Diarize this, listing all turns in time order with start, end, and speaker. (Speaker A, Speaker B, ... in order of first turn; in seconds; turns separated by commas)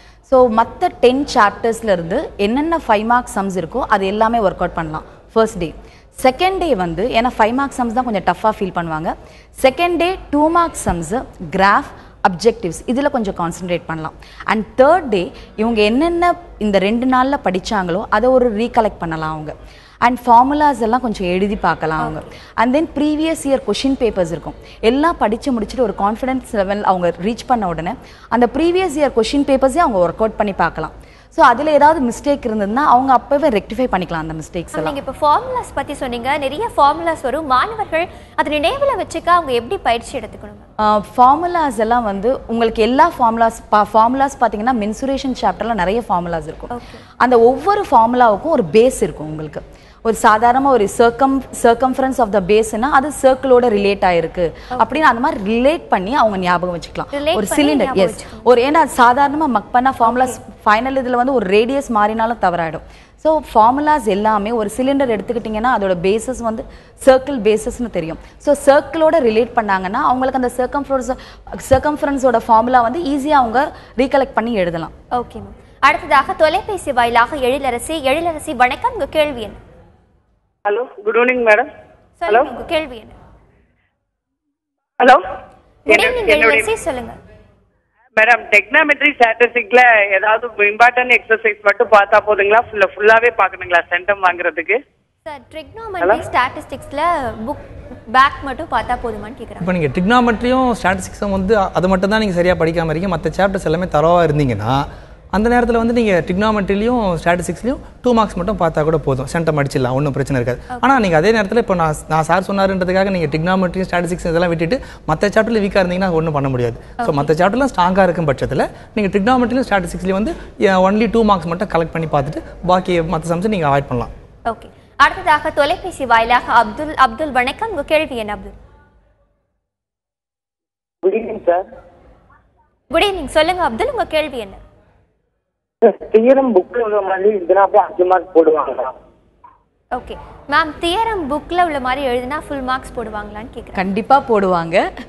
Speaker A: 0.3-35.0, Speaker B: 34.8-40.7, Speaker A: 40.8-74.9, Speaker B: 46.7-47.0, Speaker B: 54.7-55.0, Speaker B: 57.1-58.5, Speaker B: 60.0-60.4, Speaker B: 75.1-79.6, Speaker C: 80.7-81.7, Speaker B: 82.2-83.2, Speaker B: 85.9-87.2, Speaker C: 85.9-86.7, Speaker C: 88.2-94.8, Speaker B: 95.2-99.7, Speaker D: 99.6-124.1, Speaker B: 117.0-117.3, Speaker B: 124.5-128.5, Speaker E: 131.0-131.6, Speaker B: 132.9-134.6, Speaker E: 135.8-138.9, Speaker B: 139.9-143.8, Speaker A: 143.8-144.8